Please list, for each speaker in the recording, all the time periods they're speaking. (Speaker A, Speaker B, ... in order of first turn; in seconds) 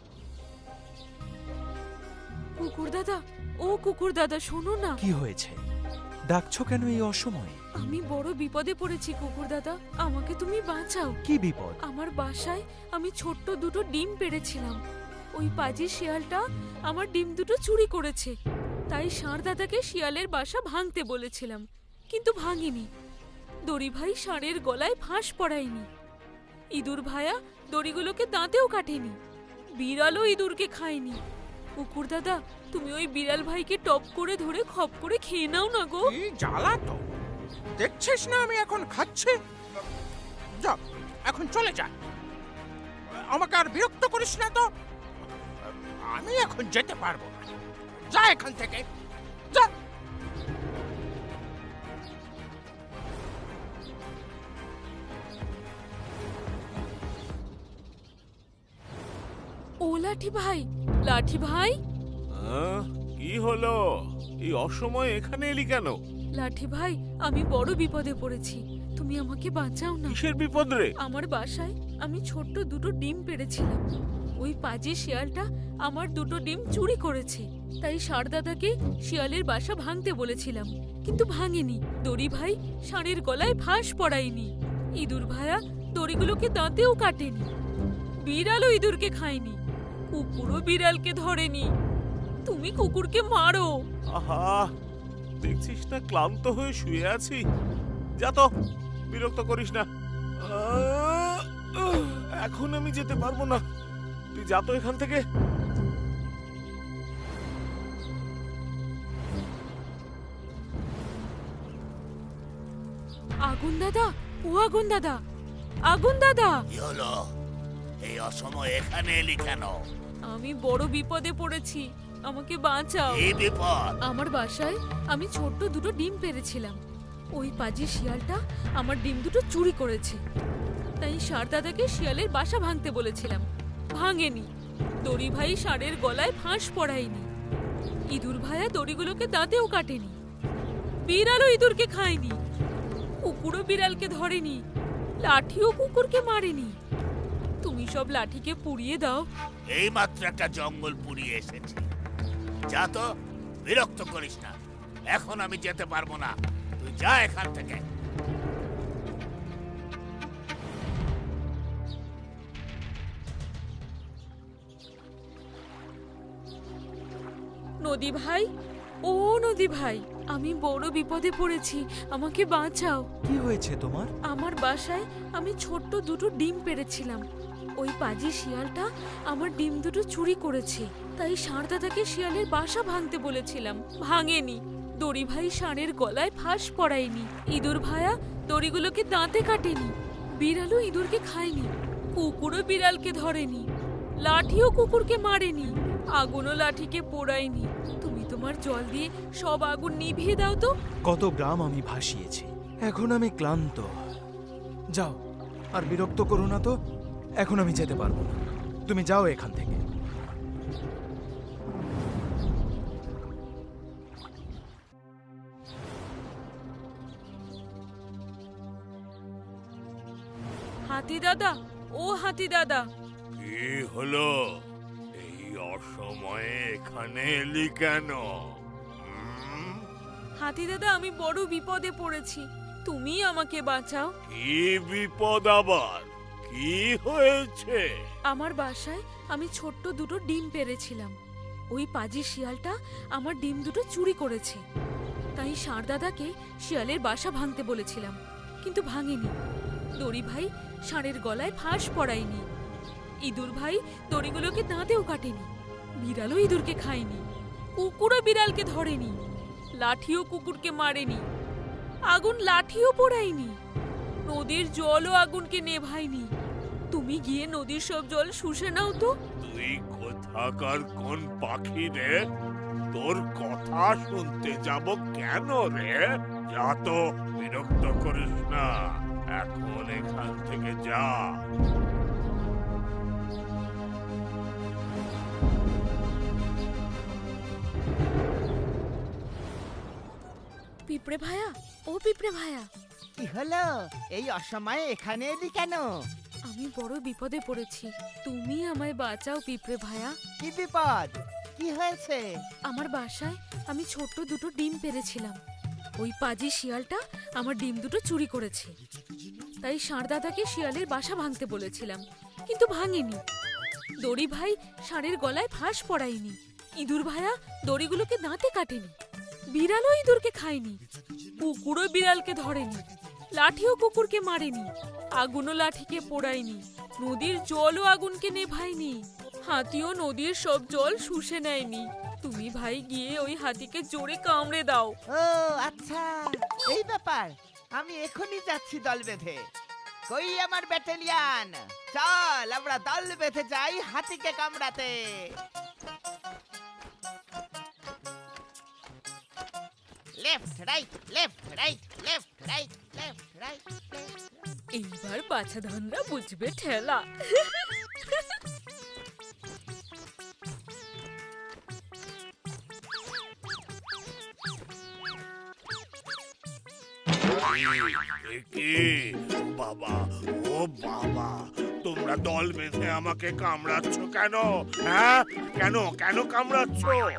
Speaker A: 2.6-5.0, 7.8-11.2, 11.8-14.8, 15.4-18.3, 18.9-22.9, 23.7-25.9, 26.8-29.2, 29.8-31.2, 31.8-36.1, 59.8-61.8, 66.4-70.2, 71.0-73.8, 74.4-87.5, 88.2-89.6, 90.1-91.7, 92.5-93.8, 113.5-115.2, 115.9-116.6, 120.3-123.3, 124.1-126.8, 127.3-130.2, 131.0-134.5, 135.0-137.3, 138.1-140.2, 141.1-142.4, 143.2-144.6, 145.2-146.7, 147.6-149.2, 167.8-168.5, 169.0-173.1, 174.3-177.2, 177.8-193.7, 194.2-200.7, 220.9-222.9, 230.4-234.1, 238.3-241.2, 241.7-244.6, 245.4-249.3, 250.0-252.4, 253.2-255.5, 256.0-257.2, 257.8-259.1, 259.8-261.2, 262.1-263.6, 264.3-266.3, 266.9-269.1, 290.9-292.7, 296.5-300.1, 302.7-305.4, 306.0-308.7, 309.6-313.2, 314.0-319.0, 319.5-320.8, 321.4-334.9, 354.8-358.3
Speaker B: 5.0-5.6, 6.3-7.6, 11.2-11.8, 173.2-174.1, 201.1-203.9, 205.8-206.7, 207.4-209.8
Speaker C: 36.0-37.0, 37.8-39.4, 40.6-41.9, 43.1-44.7, 46.0-47.5, 48.1-48.9
Speaker D: 62.4-63.8, 64.5-66.0, 70.1-70.9, 94.2-94.7, 95.4-97.4, 98.2-98.5, 99.1-99.9, 100.5-103.6, 104.3-105.2, 235.4-235.8, 273.0-273.6
Speaker E: 116.7-117.2, 118.0-119.8, 123.2-123.9, 149.8-151.9, 152.7-153.0, 153.7-154.5, 155.1-157.8, 223.4-224.3, 225.2-228.2, 229.2-229.7, 234.3-235.1, 235.9-237.7, 269.4-272.1, 273.0-276.0, 276.5-278.7, 279.4-281.2, 367.4-371.3, 371.9-377.0
Speaker F: 293.2-293.6, 294.2-295.8, 300.4-302.2, 335.2-336.0, 336.7-339.4, 340.1-344.9, 350.2-354.1